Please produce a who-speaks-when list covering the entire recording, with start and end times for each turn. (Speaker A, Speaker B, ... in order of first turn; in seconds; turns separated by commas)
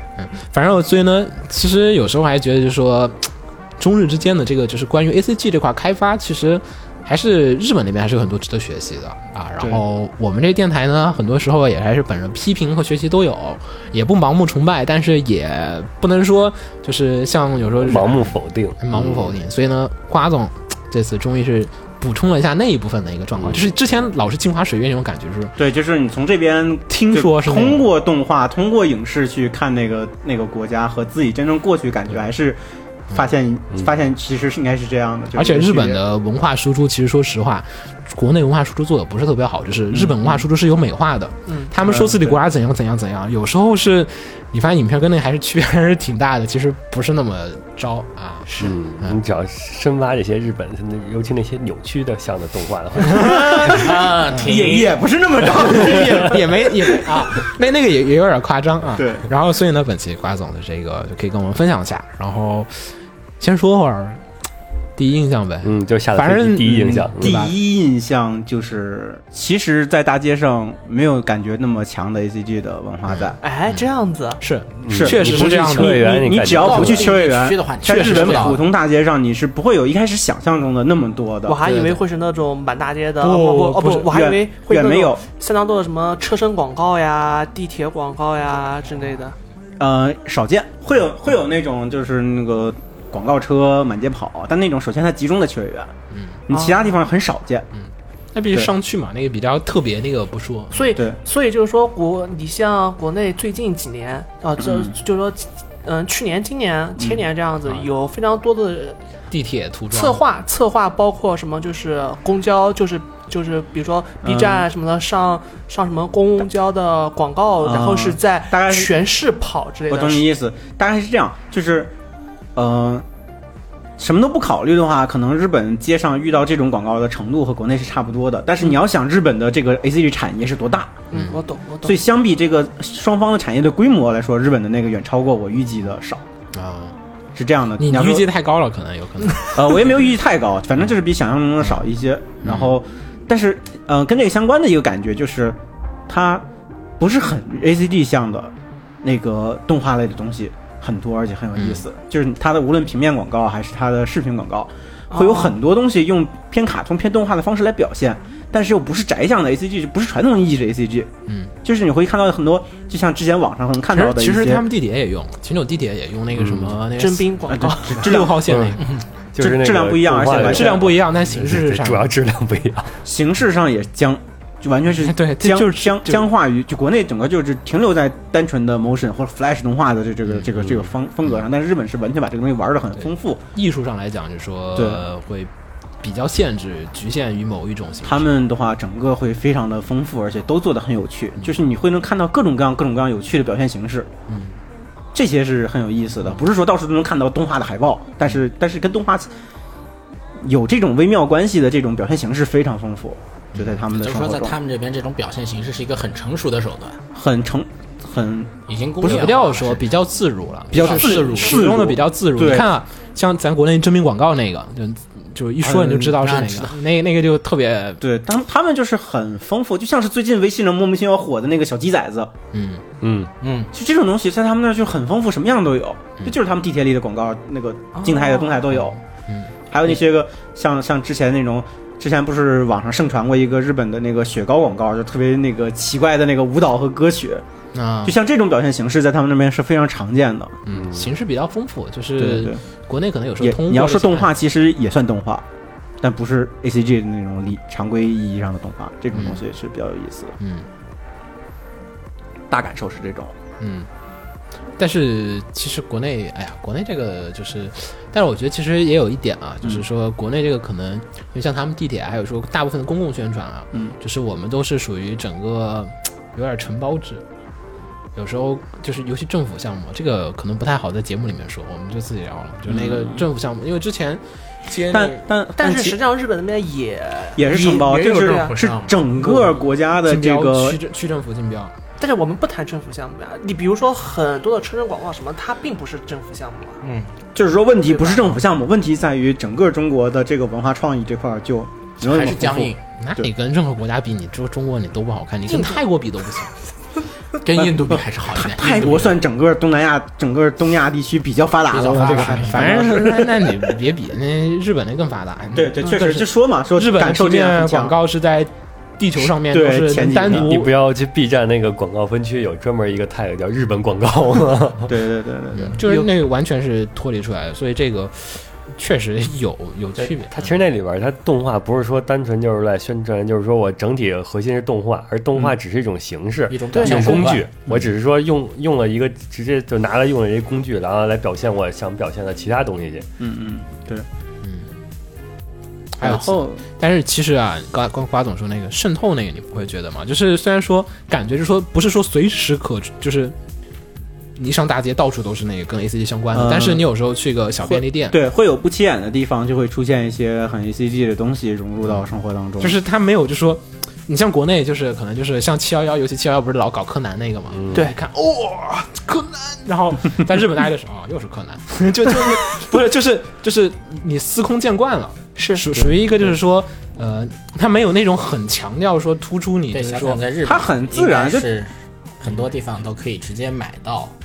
Speaker A: 0.2-25.6, Speaker B: 17.8-19.4, Speaker C: 25.6-32.6, Speaker A: 26.9-27.8, Speaker C: 33.1-36.0, Speaker A: 35.3-49.2, Speaker C: 39.9-40.4, Speaker C: 41.8-42.4, Speaker B: 48.6-53.9, Speaker C: 53.1-56.4, Speaker D: 53.6-55.0, Speaker D: 55.5-56.4, Speaker A: 55.9-62.7, Speaker C: 58.9-59.2, Speaker A: 63.4-64.2, Speaker A: 65.0-67.5, Speaker B: 65.6-67.3, Speaker C: 66.8-73.4, Speaker E: 73.4-74.4, Speaker A: 74.4-76.0, Speaker B: 74.8-77.1, Speaker C: 74.8-81.6, Speaker D: 76.5-78.6, Speaker E: 81.5-89.4, Speaker A: 81.6-82.0, Speaker A: 83.2-84.1, Speaker C: 84.0-85.2, Speaker C: 89.8-95.9, Speaker A: 96.1-96.4, Speaker C: 96.5-97.7, Speaker E: 96.5-96.8, Speaker A: 98.3-100.8, Speaker E: 100.7-109.0, Speaker C: 100.9-101.2, Speaker C: 104.6-104.9, Speaker A: 109.3-110.2, Speaker E: 109.9-120.2, Speaker C: 114.2-114.7, Speaker C: 117.6-119.0, Speaker C: 119.9-121.9, Speaker C: 122.5-123.0, Speaker C: 124.0-131.0, Speaker E: 131.1-132.0, Speaker A: 131.1-131.4, Speaker C: 131.8-136.2, Speaker A: 136.5-136.9, Speaker C: 137.3-138.3, Speaker A: 137.8-139.7, Speaker C: 139.5-146.4, Speaker A: 142.4-142.7, Speaker C: 147.0-161.1, Speaker A: 151.6-151.8, Speaker E: 155.1-155.5, Speaker A: 161.3-161.5, Speaker C: 161.6-164.6, Speaker A: 163.9-168.9, Speaker B: 166.4-166.7, Speaker E: 166.9-168.1, Speaker C: 167.5-168.4, Speaker B: 168.5-168.8, Speaker B: 169.3-172.9, Speaker C: 169.4-171.0, Speaker A: 170.4-172.1, Speaker C: 173.0-183.4, Speaker A: 175.0-176.3, Speaker A: 183.5-185.5, Speaker C: 184.8-185.0, Speaker A: 186.0-188.3, Speaker C: 188.0-194.1, Speaker A: 194.3-194.6, Speaker C: 195.1-199.3, Speaker C: 200.4-204.6, Speaker A: 203.5-203.8, Speaker D: 203.9-207.0, Speaker C: 207.1-209.4, Speaker D: 208.7-209.8, Speaker A: 209.0-218.0, Speaker C: 210.7-212.7, Speaker D: 210.7-211.7, Speaker C: 215.6-216.1, Speaker D: 216.1-216.8, Speaker C: 218.0-222.3, Speaker A: 222.5-222.8, Speaker B: 223.0-223.3, Speaker D: 223.4-223.7, Speaker C: 223.7-229.0, Speaker E: 227.9-228.5, Speaker C: 229.7-237.4, Speaker A: 237.7-238.2, Speaker C: 238.0-240.6, Speaker A: 240.7-244.3, Speaker B: 240.7-241.1, Speaker C: 242.2-242.6, Speaker C: 243.4-245.4, Speaker C: 246.0-250.3, Speaker A: 249.1-249.4, Speaker A: 250.4-250.7, Speaker C: 252.5-253.3, Speaker A: 253.6-253.9, Speaker A: 254.8-267.2, Speaker A: 268.1-274.2, Speaker C: 272.7-273.2, Speaker C: 274.9-276.0, Speaker E: 275.6-277.5, Speaker C: 277.3-280.8, Speaker D: 277.5-279.5, Speaker E: 278.1-278.5, Speaker A: 280.0-281.7, Speaker E: 282.0-286.8, Speaker D: 286.8-287.1, Speaker C: 287.3-293.3, Speaker E: 287.9-288.4, Speaker D: 292.0-292.8, Speaker A: 293.0-296.5, Speaker E: 295.5-295.8, Speaker D: 297.4-299.2, Speaker C: 297.6-303.7, Speaker D: 301.7-302.8, Speaker A: 301.8-310.7, Speaker C: 305.5-307.9, Speaker C: 309.2-310.5, Speaker B: 310.3-314.9, Speaker C: 314.9-316.1, Speaker A: 315.7-320.5, Speaker B: 320.3-333.1, Speaker D: 326.5-327.4, Speaker E: 326.7-327.3, Speaker C: 326.8-327.8, Speaker C: 333.2-334.1, Speaker A: 334.4-334.7, Speaker A: 336.0-343.3, Speaker C: 336.0-336.6, Speaker A: 344.4-348.2, Speaker C: 346.3-346.9, Speaker C: 347.6-352.8, Speaker A: 352.6-370.2, Speaker B: 357.5-357.8, Speaker E: 357.7-358.0, Speaker E: 365.4-365.7, Speaker D: 369.7-374.1, Speaker C: 370.4-371.5